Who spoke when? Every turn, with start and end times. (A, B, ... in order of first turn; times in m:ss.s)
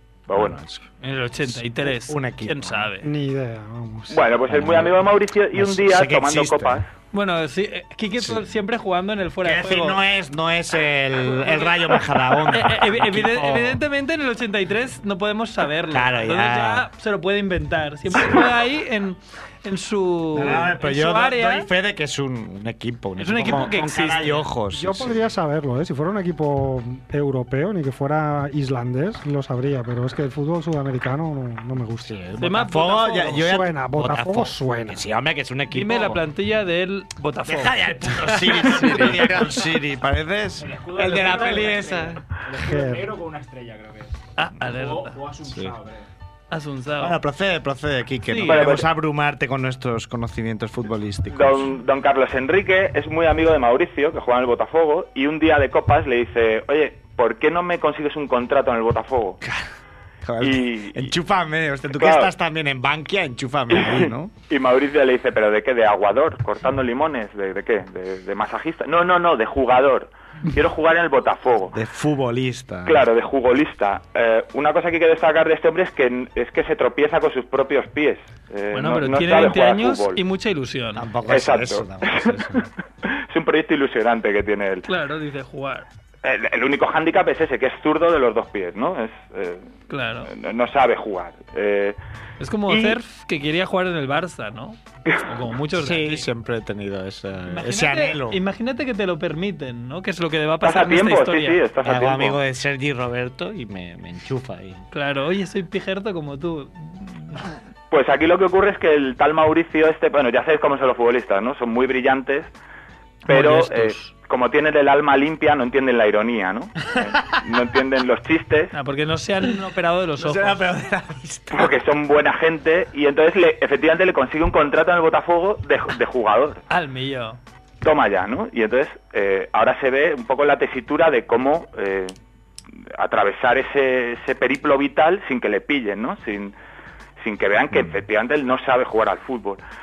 0:00.3-0:00.6 A
0:00.3-0:00.8 B
0:01.0-0:03.1 C
0:01.5-0:02.9 B
0:03.0-0:04.2 D
0:04.1-0:06.9 A
0:04.5-0:06.8 B
0:07.1-0:10.0 C
0:09.4-0:13.8 B
0:11.2-0:21.7 C
0:15.9-0:16.9 B
0:18.1-0:18.4 B
0:20.3-0:25.2 B
0:23.2-0:24.5 C
0:24.7-0:32.2 D
0:32.0-0:36.2 B
0:32.4-0:33.5 C
0:33.3-0:35.1 D
0:35.7-0:39.5 C
0:37.4-0:42.2 B
0:40.6-0:46.1 E
0:42.6-0:43.1 D
0:44.4-0:45.2 C
0:45.5-0:45.7 B
0:46.5-0:47.2 C
0:47.0-0:51.7 B
0:48.3-0:48.7 C
0:48.4-0:48.8 A
0:51.3-0:59.4 A
0:59.4-0:59.7 B
1:00.2-1:04.3 B
1:00.4-1:01.1 A
1:01.9-1:02.3 A
1:03.7-1:11.7 A
1:11.7-1:13.1 B
1:12.8-1:20.2 A
1:18.7-1:21.0 C
1:20.9-1:22.7 B
1:21.3-1:24.8 A
1:24.9-1:25.8 C
1:26.2-1:29.7 A
1:29.9-1:30.3 C
1:30.3-1:32.0 A
1:32.4-1:36.3 C
1:32.7-1:33.0 A
1:35.8-1:38.4 B
1:37.5-1:41.6 C
1:40.6-1:42.4 A
1:41.8-1:44.8 B
1:44.9-1:47.4 C
1:47.9-1:52.5 A
1:53.2-1:58.7 A
1:53.3-1:54.1 C
1:58.7-2:00.6 C
2:00.2-2:01.8 B
2:01.5-2:06.6 A
2:06.7-2:07.4 C
2:07.8-2:12.1 A
2:12.9-2:16.5 A
2:17.2-2:19.6 A